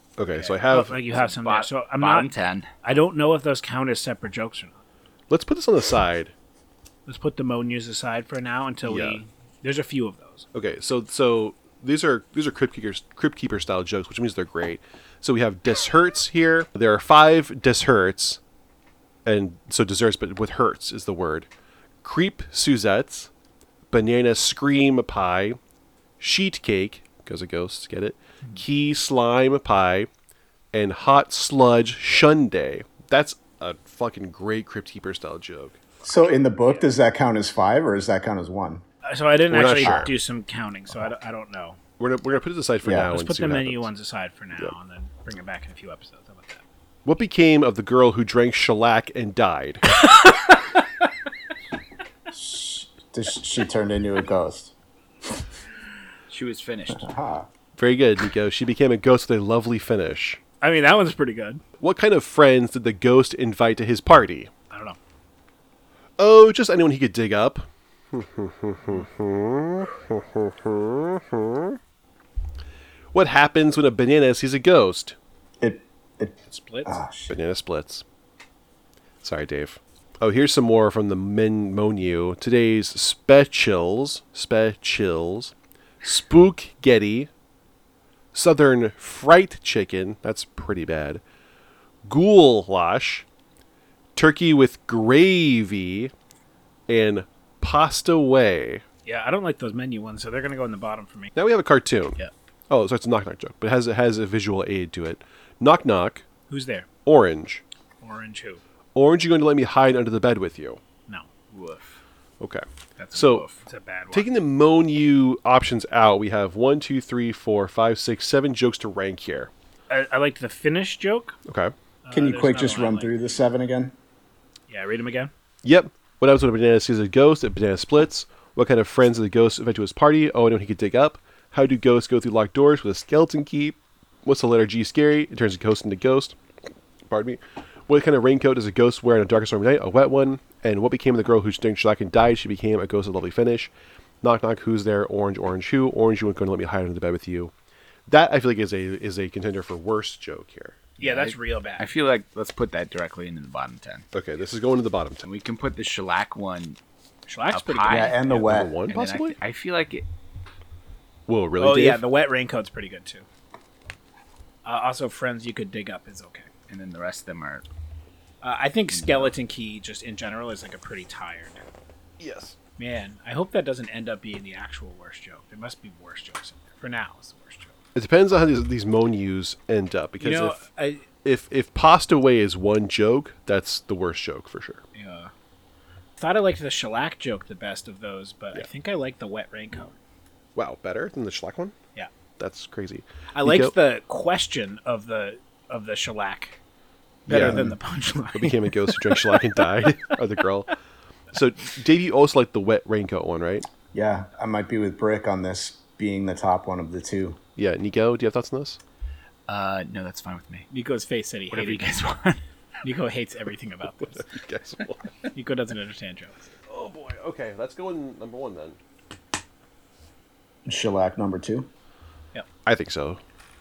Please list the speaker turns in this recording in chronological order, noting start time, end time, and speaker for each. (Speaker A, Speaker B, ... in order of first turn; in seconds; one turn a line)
Speaker A: 0.2-1.0
Speaker B: 0.7-2.3
Speaker C: 1.0-2.7
Speaker B: 2.8-4.8
Speaker A: 5.3-6.3
Speaker B: 7.1-10.4
Speaker A: 8.8-9.2
Speaker A: 10.5-18.4
Speaker A: 19.2-21.5
Speaker A: 22.0-23.3
Speaker A: 23.9-25.6
Speaker A: 26.2-30.1
Speaker A: 30.7-35.8
Speaker D: 36.0-38.8
Speaker B: 39.0-41.8
Speaker A: 39.5-40.1
Speaker D: 39.8-40.1
Speaker A: 42.0-43.9
Speaker D: 42.8-43.1
Speaker B: 43.1-46.6
Speaker A: 47.1-49.9
Speaker B: 50.0-50.6
Speaker D: 52.3-54.7
Speaker C: 56.3-57.1
Speaker D: 56.9-57.5
Speaker A: 57.8-60.4
Speaker B: 60.6-61.6
Speaker A: 61.8-64.5
Speaker B: 64.7-65.0
Speaker A: 66.2-71.8
Speaker A: 73.1-75.2
Speaker D: 75.6-77.4
Speaker B: 76.5-77.0
Speaker A: 77.3-78.0
Speaker A: 79.2-87.3
Speaker A: 88.3-91.2
Speaker A: 92.1-93.3
Speaker A: 94.2-96.1
Speaker A: 96.9-98.8
Speaker B: 99.0-101.3
Speaker A: 101.3-102.2
Speaker A: 102.7-106.2
Speaker B: 106.5-106.9
Speaker A: 107.0-107.6
Speaker B: 108.0-108.6
Speaker A: 109.0-110.8
Speaker C: 111.5-112.0
Speaker A: 112.4-113.5
Speaker C: 113.0-113.6
Speaker B: 113.6-114.3
Speaker A: 114.1-119.5
Speaker B: 119.9-121.4
Speaker A: 121.5-121.7
Speaker B: 122.0-123.3
Speaker D: 122.1-124.0
Speaker B: 124.7-125.3
Speaker A: 125.6-136.4
Speaker A: 137.1-143.7
Speaker A: 144.2-147.5
Speaker A: 148.1-150.9
Speaker B: 151.0-151.9
Speaker C: 151.0-154.1
Speaker A: 154.1-155.3
Speaker C: 155.2-156.8
Speaker B: 157.3-158.4
Speaker C: 157.5-158.2
Speaker D: 157.9-158.8
Speaker A: 158.3-159.4
Speaker C: 158.8-160.1
Speaker A: 161.3-162.0
Speaker B: 161.6-163.3
Speaker B: 164.7-166.5
Speaker C: 166.7-167.7
Speaker B: 168.4-171.7
Speaker C: 168.9-169.3
Speaker A: 172.2-172.6
Speaker B: 172.8-177.7
Speaker A: 177.9-180.6
Speaker B: 180.2-181.1
Speaker A: 181.2-184.8
Speaker B: 184.9-185.3
Speaker B: 186.2-190.0
Speaker A: 190.6-191.8
Speaker A: 192.4-193.8
Speaker B: 193.3-196.6
Speaker A: 197.3-197.7
Speaker B: 197.3-199.4
Speaker D: 197.3-197.8
Speaker A: 198.3-200.7
Speaker A: 201.3-203.7
Speaker D: 203.9-207.4
Speaker A: 207.6-208.8
Speaker C: 209.5-210.7
Speaker B: 210.7-212.0
Speaker C: 211.5-212.4
Speaker B: 212.8-214.3
Speaker A: 214.0-215.1
Speaker B: 215.3-216.5
Speaker A: 216.7-218.8
Speaker D: 220.7-221.7
Speaker A: 222.7-223.2